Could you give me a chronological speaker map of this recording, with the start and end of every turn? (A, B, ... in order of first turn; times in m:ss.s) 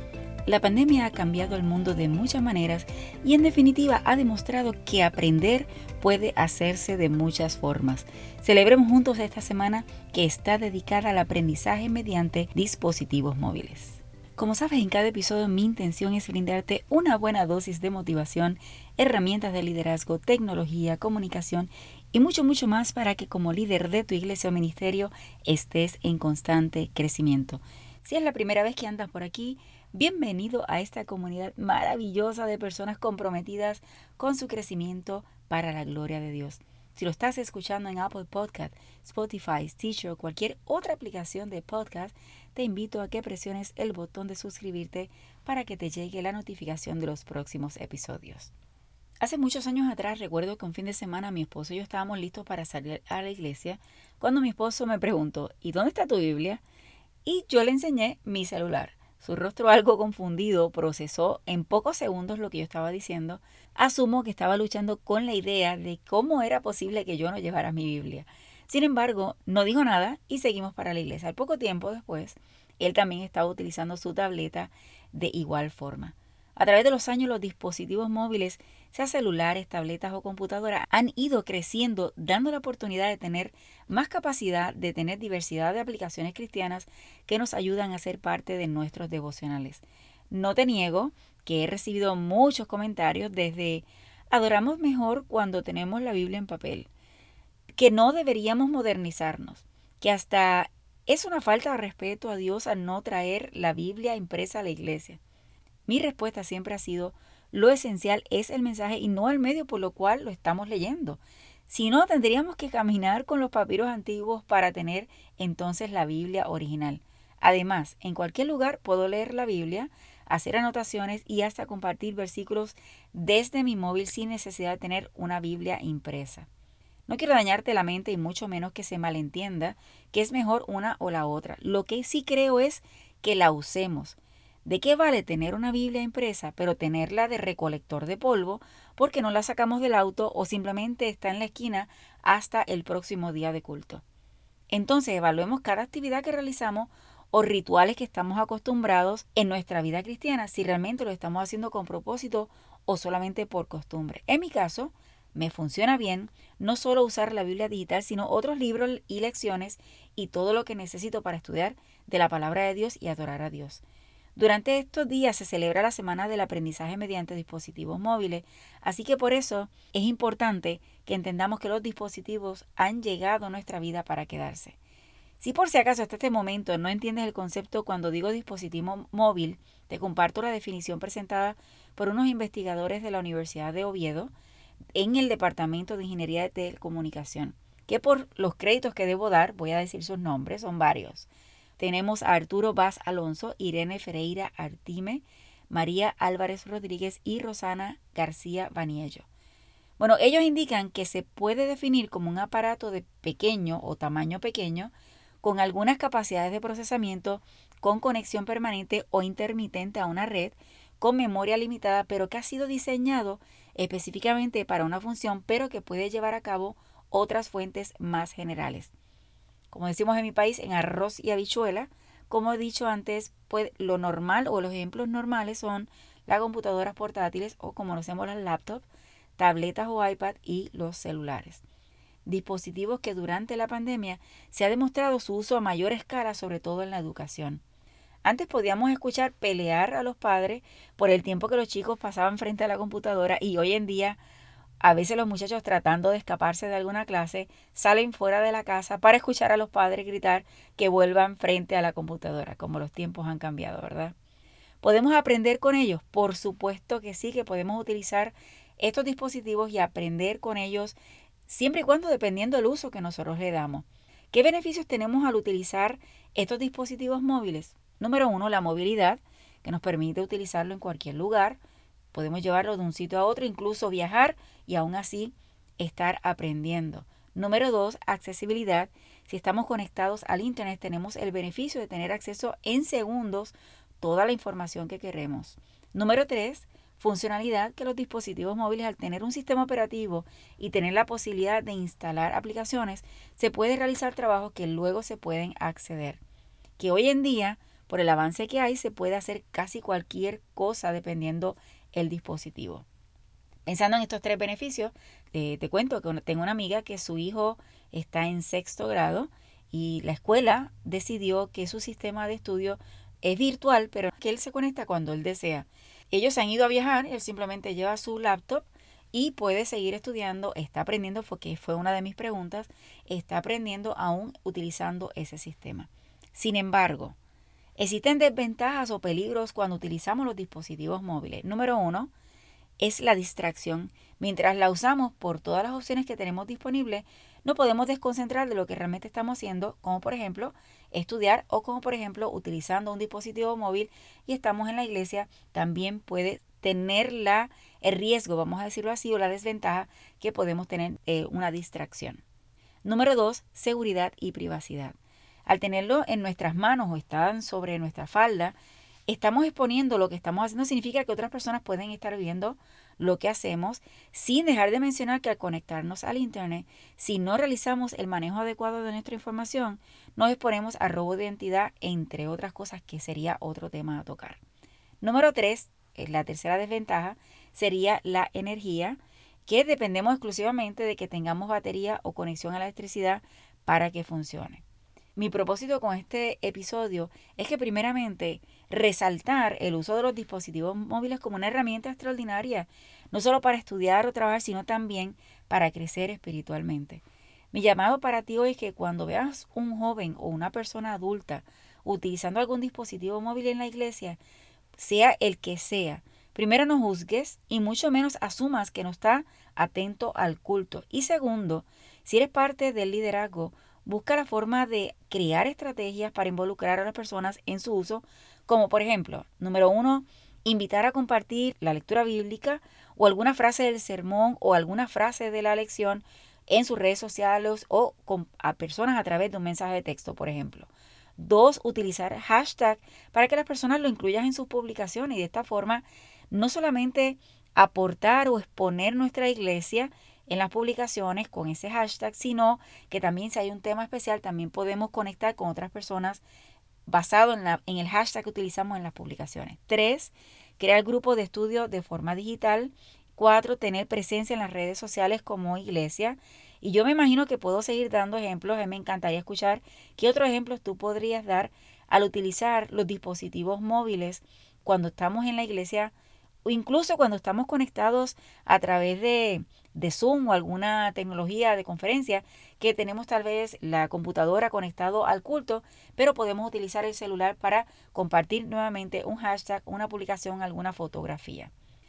0:00.4-0:48.5 A
0:49.2-0:56.6 A
0:57.2-1:36.9 A
1:37.8-1:45.2 A
1:45.8-2:06.5 A
2:07.1-2:24.0 A
2:24.7-2:43.8 A
2:44.3-2:54.8 A
2:55.4-3:04.3 A
3:04.9-3:19.3 A
3:20.0-3:38.9 A
3:39.7-3:48.8 A
3:49.4-3:51.6 A
3:52.2-3:57.6 A
3:58.2-4:04.2 A
4:04.8-4:14.2 A
4:14.8-4:21.0 A
4:21.5-4:31.6 A
4:32.1-4:56.2 A
4:56.8-5:02.8 A
5:03.6-5:27.2 A
5:27.8-5:32.1 A
5:32.8-5:52.2 A
5:52.8-5:58.6 A
5:59.1-6:14.4 A
6:15.0-6:24.6 A
6:25.2-6:44.2 A
6:44.8-7:26.2 A
7:26.9-7:45.9 A
7:46.4-8:01.5 A